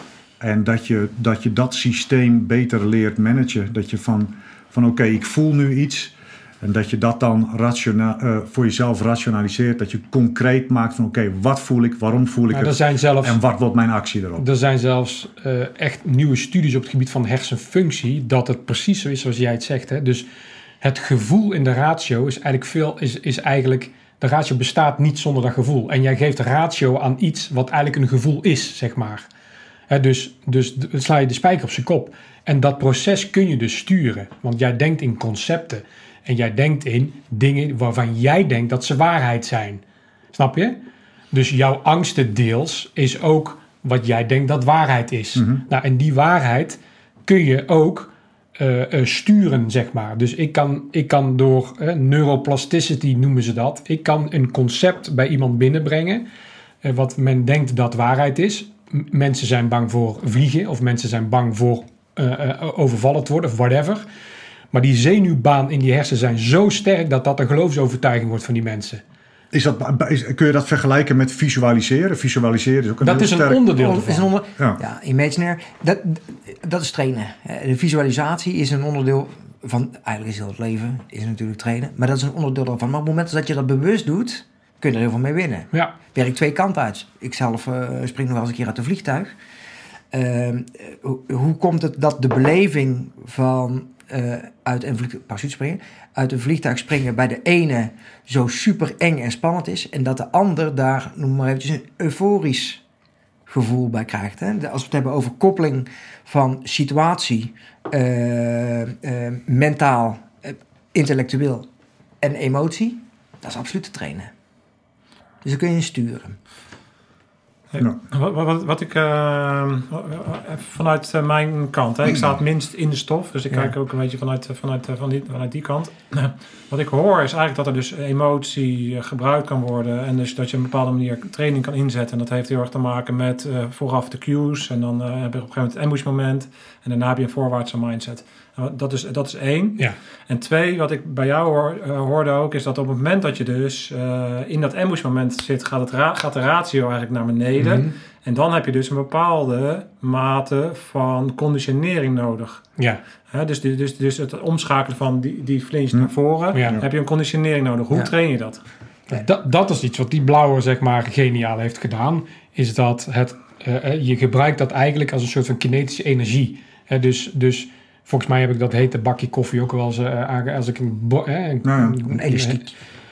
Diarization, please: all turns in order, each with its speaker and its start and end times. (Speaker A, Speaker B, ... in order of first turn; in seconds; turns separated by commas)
Speaker A: 0.4-14.4, Speaker B: 12.5-13.4, Speaker B: 14.4-20.3, Speaker B: 20.8-29.3, Speaker B: 29.9-39.8, Speaker B: 40.3-40.8, Speaker B: 41.3-56.2, Speaker A: 45.4-45.6, Speaker B: 56.8-64.0, Speaker B: 64.7-69.0, Speaker A: 69.5-73.8, Speaker B: 73.0-74.3, Speaker C: 73.7-89.3, Speaker C: 90.1-102.8, Speaker C: 103.5-111.7, Speaker C: 112.2-114.3, Speaker C: 115.4-116.4, Speaker D: 117.7-152.7, Speaker B: 147.6-147.9, Speaker D: 153.3-158.6, Speaker B: 156.5-156.8, Speaker B: 159.1-172.7, Speaker A: 171.6-172.0, Speaker C: 172.1-172.7